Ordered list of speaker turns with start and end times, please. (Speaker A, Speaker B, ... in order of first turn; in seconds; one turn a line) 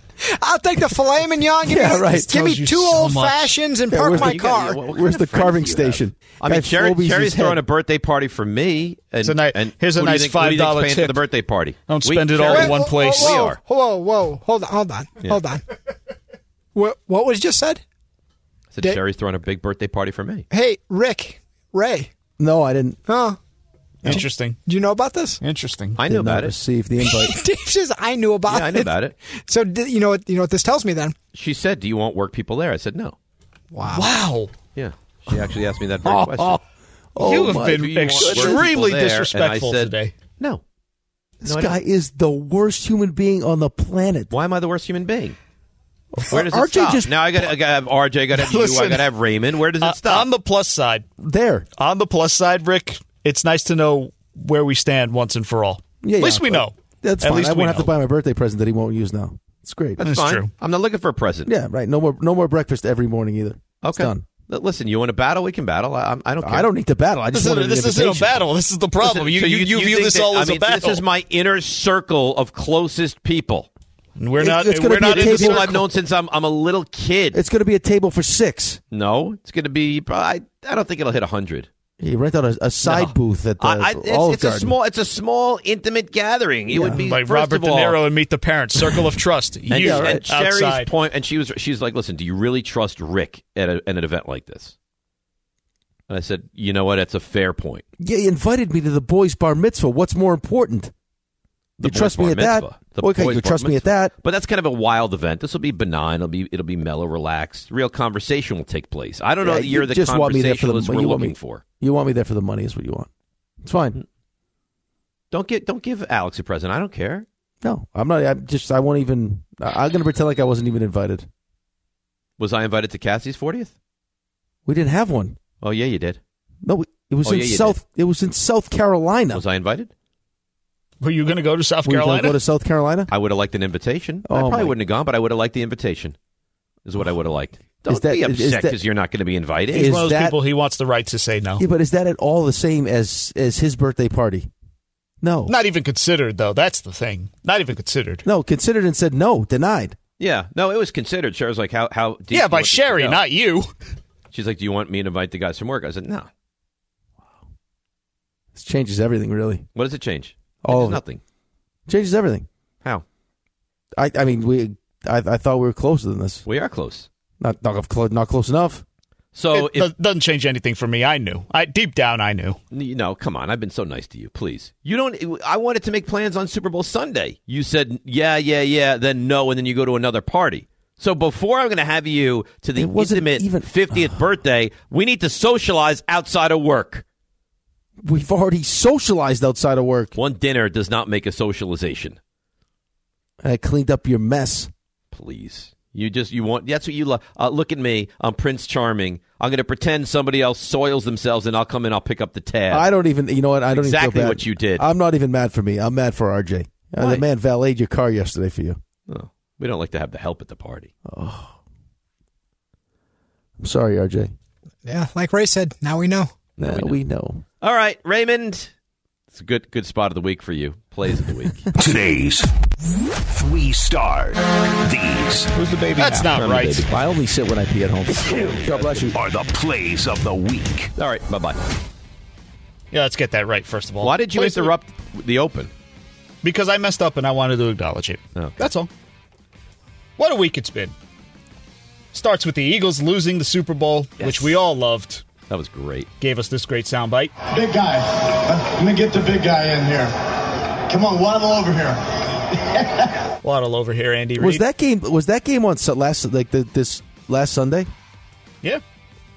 Speaker A: 0.2-4.8
Speaker B: 1.6-2.6
Speaker C: 2.3-3.5
Speaker B: 3.9-7.6
Speaker D: 4.1-13.6
Speaker C: 9.2-11.2
Speaker C: 11.9-13.5
Speaker A: 12.5-15.6
Speaker A: 16.7-17.8
Speaker D: 18.7-20.4
Speaker A: 20.5-22.1
Speaker B: 22.4-23.0
Speaker A: 23.1-23.4
Speaker C: 24.0-24.6
Speaker A: 24.0-25.4
Speaker C: 25.4-26.0
Speaker D: 26.0-26.6
Speaker B: 26.1-27.3
Speaker A: 27.0-31.1
Speaker D: 28.5-29.1
Speaker D: 31.3-33.1
Speaker A: 33.7-34.1
Speaker C: 33.9-34.5
Speaker D: 34.7-36.6
Speaker B: 36.0-36.6
Speaker B: 37.1-38.7
Speaker C: 37.2-40.1
Speaker D: 37.4-40.6
Speaker B: 41.4-44.3
Speaker D: 41.5-41.8
Speaker D: 44.3-45.4
Speaker B: 46.1-47.5
Speaker D: 46.3-50.3
Speaker C: 48.3-49.1
Speaker C: 49.8-51.0
Speaker B: 51.2-51.6
Speaker C: 51.8-57.9
Speaker B: 56.0-60.0
Speaker D: 60.0-61.5
Speaker C: 60.0-60.5
Speaker B: 61.5-64.2
Speaker D: 63.8-66.7
Speaker B: 66.4-68.5
Speaker C: 67.3-71.0
Speaker D: 69.0-73.7
Speaker C: 74.2-75.8
Speaker B: 74.4-75.8
Speaker D: 75.0-77.4
Speaker B: 77.3-78.8
Speaker D: 78.9-81.7
Speaker B: 82.0-84.7
Speaker D: 82.8-88.0
Speaker B: 86.7-87.0
Speaker C: 86.9-90.9
Speaker D: 89.7-94.7
Speaker B: 89.7-90.2
Speaker D: 96.1-97.8
Speaker B: 98.0-100.9
Speaker D: 101.8-111.6
Speaker B: 101.8-104.1
Speaker B: 109.4-113.1
Speaker B: 113.6-114.0
Speaker D: 115.3-117.2
Speaker B: 117.6-121.3
Speaker D: 122.4-123.7
Speaker B: 124.7-125.4
Speaker D: 125.6-126.2
Speaker B: 126.6-129.4
Speaker D: 127.2-127.8
Speaker D: 129.3-129.9
Speaker C: 131.0-132.4
Speaker B: 131.8-133.1
Speaker D: 133.1-136.2
Speaker B: 134.2-134.8
Speaker D: 136.8-140.0
Speaker B: 137.9-138.8
Speaker B: 139.7-140.4
Speaker C: 139.7-141.6
Speaker B: 141.6-144.5
Speaker B: 145.2-145.5
Speaker C: 145.5-148.2
Speaker B: 148.2-149.9
Speaker D: 150.2-153.2
Speaker C: 152.3-153.7
Speaker D: 154.3-156.3
Speaker B: 158.5-159.6
Speaker D: 159.7-161.2
Speaker B: 160.6-161.0
Speaker B: 161.9-162.4
Speaker B: 164.0-166.4
Speaker D: 166.4-167.1
Speaker B: 167.4-168.8
Speaker D: 169.3-169.9
Speaker C: 169.5-172.6
Speaker D: 172.7-187.0
Speaker B: 182.8-184.2
Speaker B: 188.0-190.1
Speaker D: 190.1-192.2
Speaker B: 193.4-194.7
Speaker D: 195.1-202.8
Speaker B: 202.7-208.8
Speaker D: 203.7-204.8
Speaker D: 209.1-210.9
Speaker B: 211.1-211.6
Speaker B: 213.6-214.3
Speaker A: 214.8-216.3
Speaker D: 216.6-217.0
Speaker B: 216.6-217.4
Speaker D: 217.6-218.7
Speaker D: 219.3-221.7
Speaker E: 221.8-222.5
Speaker E: 223.3-225.5
Speaker C: 225.5-226.8
Speaker B: 226.0-229.2
Speaker D: 226.1-226.8
Speaker E: 229.1-230.9
Speaker D: 231.0-231.6
Speaker C: 232.9-234.7
Speaker D: 234.0-235.7
Speaker C: 236.4-238.9
Speaker D: 238.3-238.6
Speaker C: 240.2-240.9
Speaker C: 242.1-245.3
Speaker D: 244.2-244.6
Speaker D: 245.5-246.1
Speaker C: 246.2-247.3
Speaker F: 247.4-250.1
Speaker F: 250.9-253.2
Speaker C: 253.4-254.6
Speaker B: 254.4-257.9